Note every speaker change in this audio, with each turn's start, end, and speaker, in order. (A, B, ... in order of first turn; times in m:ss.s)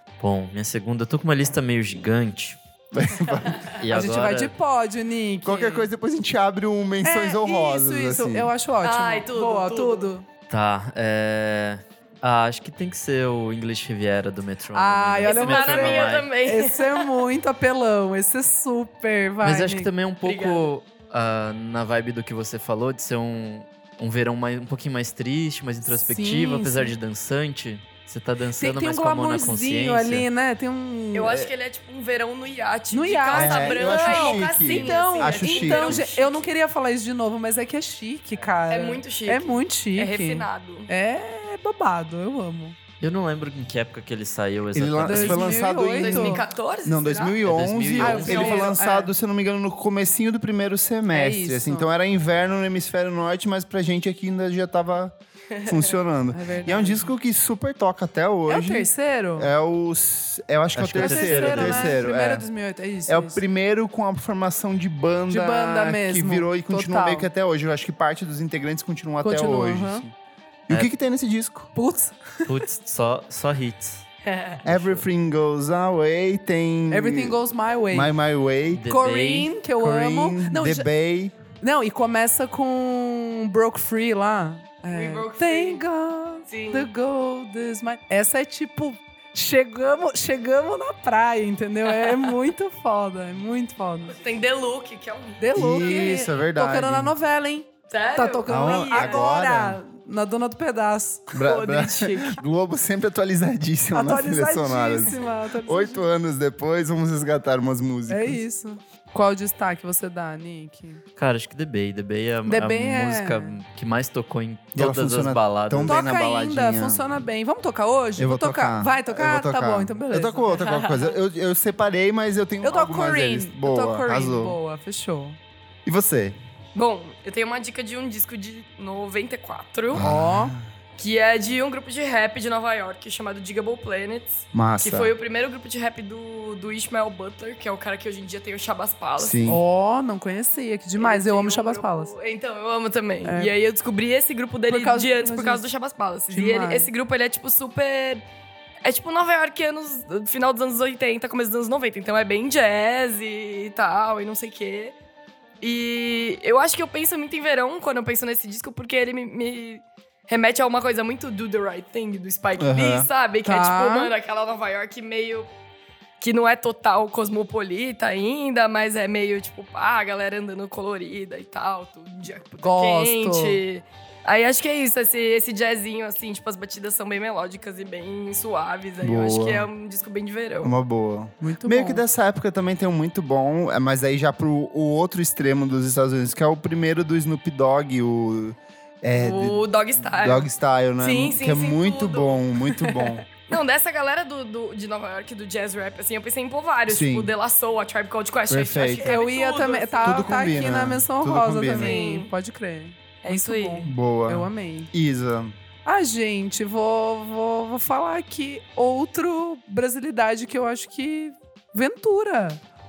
0:00.2-0:02.6 A
0:02.9-0:03.7 B
0:03.7-0:04.5 A
0:03.9-0:05.9 C
0:05.4-0:08.5 B
0:07.0-0:10.2 C
0:08.8-0:10.1 D
0:10.5-0:16.3 A
0:14.7-0:19.9 C
0:15.2-0:17.1 D
0:19.4-0:30.3 A
0:20.2-0:20.7 D
0:25.9-0:26.9 C
0:28.6-0:31.5 C
0:31.1-0:36.4 D
0:32.9-0:42.8 C
0:33.3-0:36.0 B
0:38.7-0:40.9 D
0:43.0-0:45.6 A
0:44.7-1:02.5 B
0:45.0-0:46.4 C
0:45.8-0:47.4 D
0:47.4-0:48.7 A
0:48.0-0:49.1 C
0:48.2-0:48.7 D
0:51.1-0:51.9 C
0:55.6-0:56.0 D
0:56.3-0:57.1 C
0:58.5-0:59.5 C
1:00.8-1:02.0 A
1:01.0-1:03.4 C
1:03.1-1:10.1 B
1:05.3-1:07.3 C
1:09.2-1:10.0 C
1:10.7-1:11.7 B
1:11.8-1:12.5 C
1:12.5-1:14.0 A
1:14.2-1:14.6 D
1:14.6-1:15.0 A
1:14.6-1:17.4 B
1:16.9-1:18.1 C
1:17.9-1:18.8 B
1:18.7-1:19.5 A
1:18.9-1:20.9 C
1:19.8-1:21.4 B
1:21.6-1:34.2 C
1:24.9-1:25.8 D
1:26.5-1:26.9 D
1:34.1-1:36.2 D
1:35.4-1:41.3 C
1:35.6-1:37.1 B
1:37.9-1:39.3 D
1:38.5-1:39.8 B
1:41.3-1:48.4 B
1:41.4-1:42.4 D
1:43.9-1:46.1 C
1:48.1-1:51.0 C
1:51.2-1:56.0 A
1:52.5-1:53.6 C
1:54.8-1:57.1 B
1:55.9-2:00.6 C
1:58.2-2:04.6 B
2:00.6-2:01.2 D
2:02.6-2:05.4 C
2:05.8-2:06.4 B
2:06.7-2:10.0 D
2:09.9-2:10.7 B
2:10.0-2:10.6 C
2:11.0-2:19.5 D
2:14.5-2:15.1 B
2:19.2-2:19.6 B
2:19.5-2:22.1 C
2:21.0-2:28.2 D
2:23.2-2:23.5 C
2:24.7-2:25.6 C
2:26.3-2:26.9 C
2:28.8-2:35.0 D
2:35.6-2:45.5 D
2:42.6-2:43.1 B
2:43.4-2:44.1 C
2:46.2-3:00.8 D
2:52.6-2:53.6 C
2:59.0-2:59.7 B
3:00.6-3:13.2 B
3:01.4-3:02.0 C
3:09.2-3:10.5 D
3:11.0-3:12.4 D
3:13.4-3:20.7 D
3:16.9-3:17.3 B
3:18.5-3:19.2 B
3:19.0-3:24.9 C
3:20.0-3:22.0 B
3:21.6-3:22.3 D
3:23.2-3:23.9 D
3:23.8-3:25.5 B
3:25.8-3:32.6 C